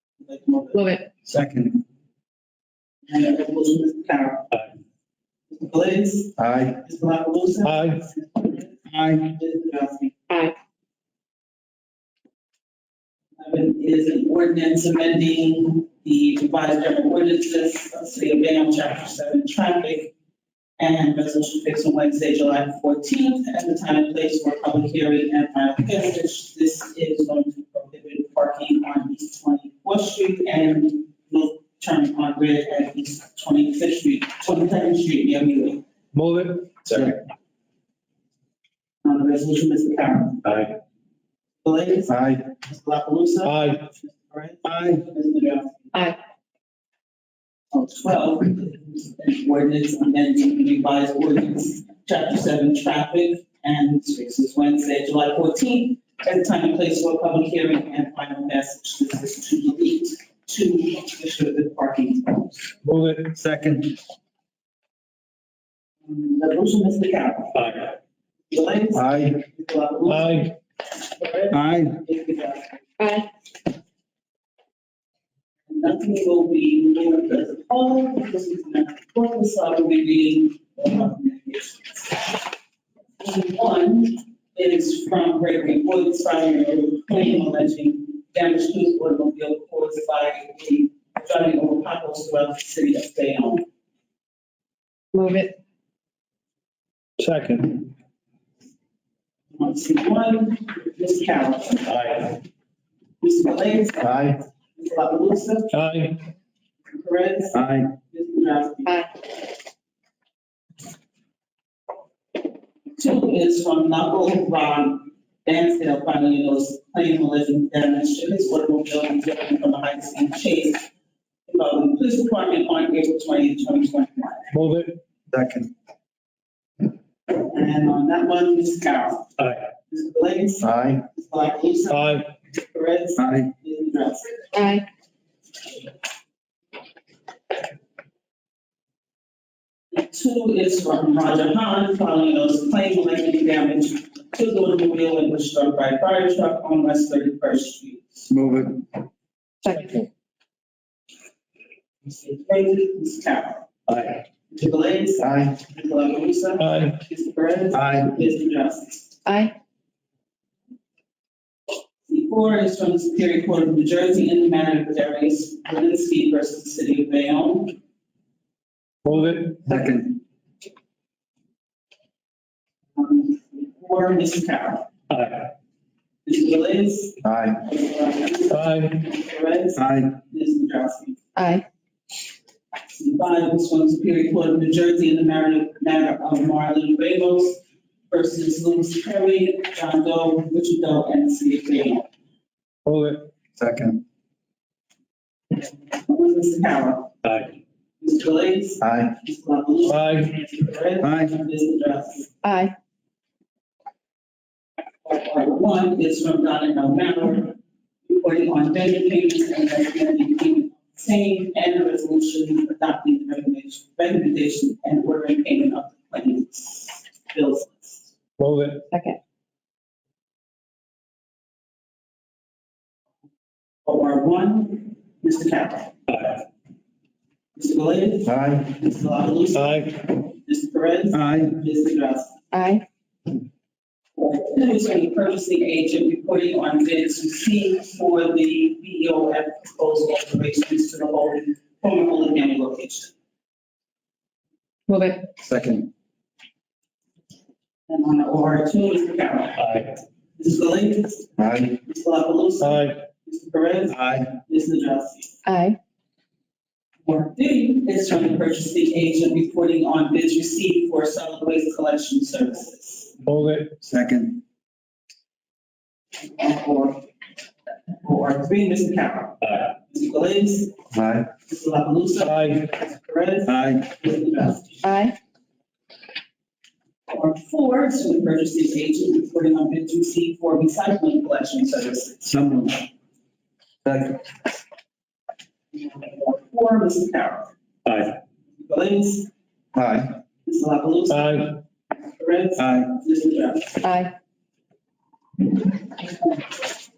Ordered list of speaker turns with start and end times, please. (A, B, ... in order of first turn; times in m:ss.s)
0:00.2-0:01.0 A
0:00.7-0:01.1 B
0:01.4-0:01.7 C
0:03.1-0:04.5 A
0:05.5-0:10.2 A
0:06.4-0:06.8 C
0:07.6-0:08.0 D
0:08.9-0:09.3 C
0:13.4-0:20.1 A
0:20.8-0:35.8 A
0:36.1-0:37.1 D
0:39.0-0:40.5 A
0:41.6-0:46.0 A
0:42.1-0:42.4 C
0:43.4-0:43.9 D
0:47.7-1:02.7 A
1:02.8-1:03.4 D
1:03.4-1:03.9 C
1:06.0-1:07.6 A
1:08.5-1:12.9 A
1:08.9-1:09.4 C
1:10.1-1:10.5 D
1:11.5-1:11.9 C
1:13.0-1:13.3 B
1:15.7-1:22.4 A
1:23.2-1:33.6 A
1:35.1-1:35.6 B
1:37.2-1:37.9 D
1:39.5-1:42.4 A
1:43.2-1:45.8 A
1:44.0-1:44.4 C
1:45.7-1:46.2 D
1:46.9-1:49.1 A
1:53.0-2:00.9 A
2:01.5-2:04.5 A
2:04.5-2:05.0 D
2:05.3-2:05.7 C
2:07.4-2:09.3 A
2:09.9-2:14.4 A
2:10.6-2:11.0 C
2:11.9-2:12.2 D
2:13.2-2:13.5 C
2:14.5-2:14.9 B
2:19.9-2:28.3 A
2:28.3-2:28.7 C
2:29.6-2:30.1 B
2:32.1-2:33.7 A
2:34.5-2:39.1 A
2:35.2-2:35.5 C
2:36.6-2:37.0 D
2:37.8-2:38.0 C
2:39.3-2:39.6 B
2:42.1-2:47.8 A
2:49.0-2:49.6 D
2:53.0-2:54.9 A
2:55.1-2:55.4 D
2:56.2-3:01.2 A
2:57.2-2:57.6 C
2:58.5-2:59.0 D
3:01.4-3:01.6 B
3:02.8-3:12.1 A
3:12.9-3:13.3 D
3:13.6-3:14.0 C
3:16.0-3:17.1 A
3:18.0-3:22.3 A
3:18.8-3:19.1 C
3:19.9-3:20.3 D
3:21.0-3:21.3 C
3:22.4-3:22.8 B
3:25.0-3:38.1 A
3:38.4-3:38.8 D
3:38.9-3:39.2 B
3:43.8-3:46.0 A
3:47.6-3:52.4 A
3:48.3-3:48.7 C
3:49.5-3:49.9 D
3:51.1-3:51.5 C
3:52.5-3:52.8 B
3:54.2-4:03.1 A
4:04.9-4:05.3 B
4:05.5-4:05.9 C
4:07.9-4:15.3 A
4:11.4-4:11.8 C
4:12.6-4:13.0 D
4:13.9-4:14.2 C
4:15.5-4:15.8 B
4:17.0-4:23.1 A
4:23.2-4:23.8 D
4:23.9-4:24.4 C
4:26.3-4:27.0 A
4:28.0-4:30.7 A
4:30.9-4:31.3 C
4:31.5-4:34.8 A
4:32.2-4:32.6 D
4:34.8-4:35.2 B
4:37.1-4:42.3 A
4:42.3-4:42.7 C
4:43.8-4:44.2 C
4:45.7-4:47.5 A
4:47.9-4:48.1 B
4:48.6-4:49.3 A
4:49.8-4:50.1 C
4:50.4-4:53.8 A
4:51.1-4:51.5 D
4:53.8-4:54.1 B